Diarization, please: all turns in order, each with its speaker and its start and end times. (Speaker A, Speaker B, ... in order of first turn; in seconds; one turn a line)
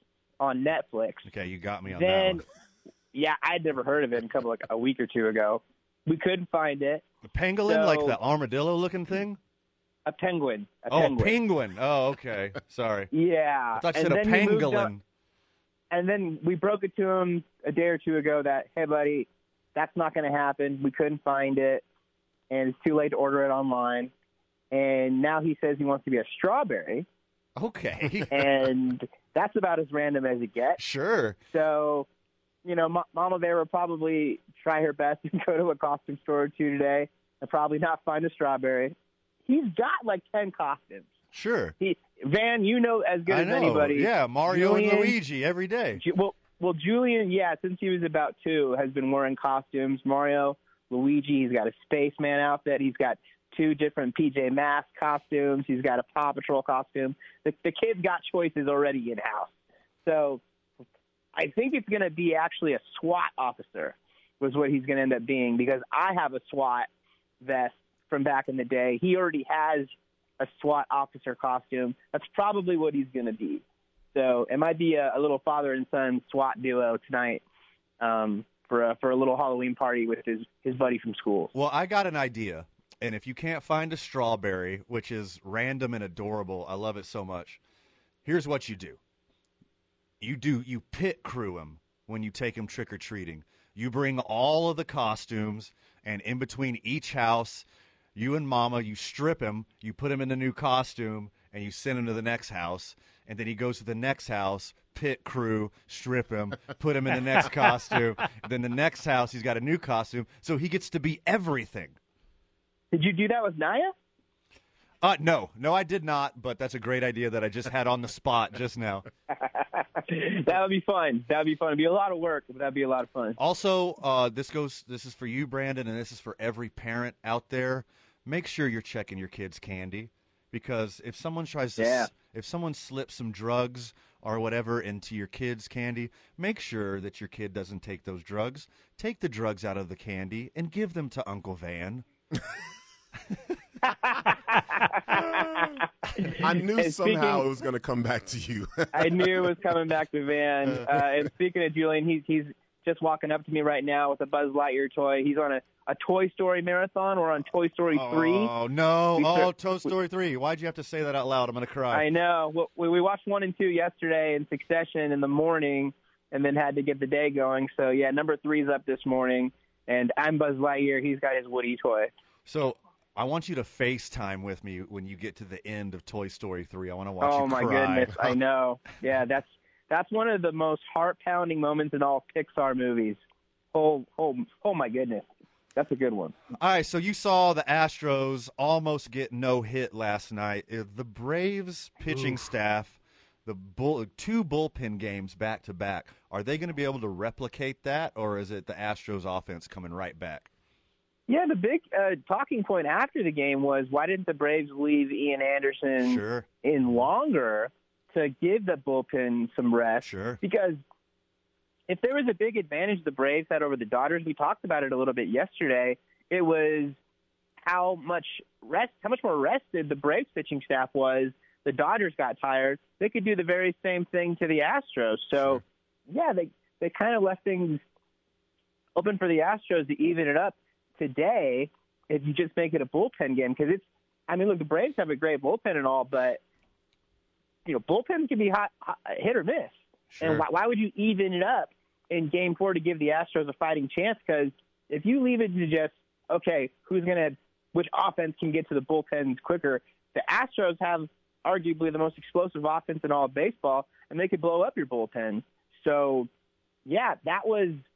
Speaker A: 0.4-1.2
Speaker B: 1.2-2.4
Speaker A: 1.9-2.4
Speaker A: 3.1-7.0
Speaker B: 7.2-9.4
Speaker A: 7.7-8.2
Speaker A: 10.1-11.3
Speaker B: 10.9-13.1
Speaker A: 13.1-14.9
Speaker B: 13.8-15.0
Speaker A: 15.9-21.8
Speaker A: 22.5-24.1
Speaker A: 24.7-27.1
Speaker B: 27.6-28.5
Speaker A: 28.3-30.8
Speaker B: 30.8-31.4
Speaker A: 31.5-32.1
Speaker A: 32.6-38.9
Speaker A: 39.5-41.0
Speaker B: 41.3-41.7
Speaker A: 41.8-45.1
Speaker B: 43.3-46.0
Speaker A: 46.0-59.5
Speaker A: 60.0-60.4
Speaker A: 61.3-66.9
Speaker A: 67.4-73.6
Speaker A: 74.1-77.4
Speaker A: 78.0-81.5
Speaker B: 81.5-87.6
Speaker B: 88.2-89.0
Speaker B: 90.2-112.0
Speaker A: 112.9-113.9
Speaker B: 115.0-119.0
Speaker A: 119.5-123.4
Speaker B: 123.4-142.0
Speaker A: 131.8-132.1
Speaker A: 143.8-147.4
Speaker C: 146.3-149.6
Speaker A: 148.9-158.5
Speaker B: 157.9-162.1
Speaker A: 159.2-159.5
Speaker A: 161.9-172.1
Speaker B: 172.4-178.3
Speaker A: 177.2-183.2
Speaker A: 183.7-185.2
Speaker A: 185.8-186.3
Speaker B: 186.6-200.5
Speaker A: 201.3-210.8
Speaker B: 206.0-206.4
Speaker B: 210.0-210.4
Speaker A: 211.9-216.9
Speaker A: 217.7-227.8
Speaker A: 228.9-236.4
Speaker A: 237.7-256.3
Speaker B: 240.1-240.4
Speaker A: 256.9-257.8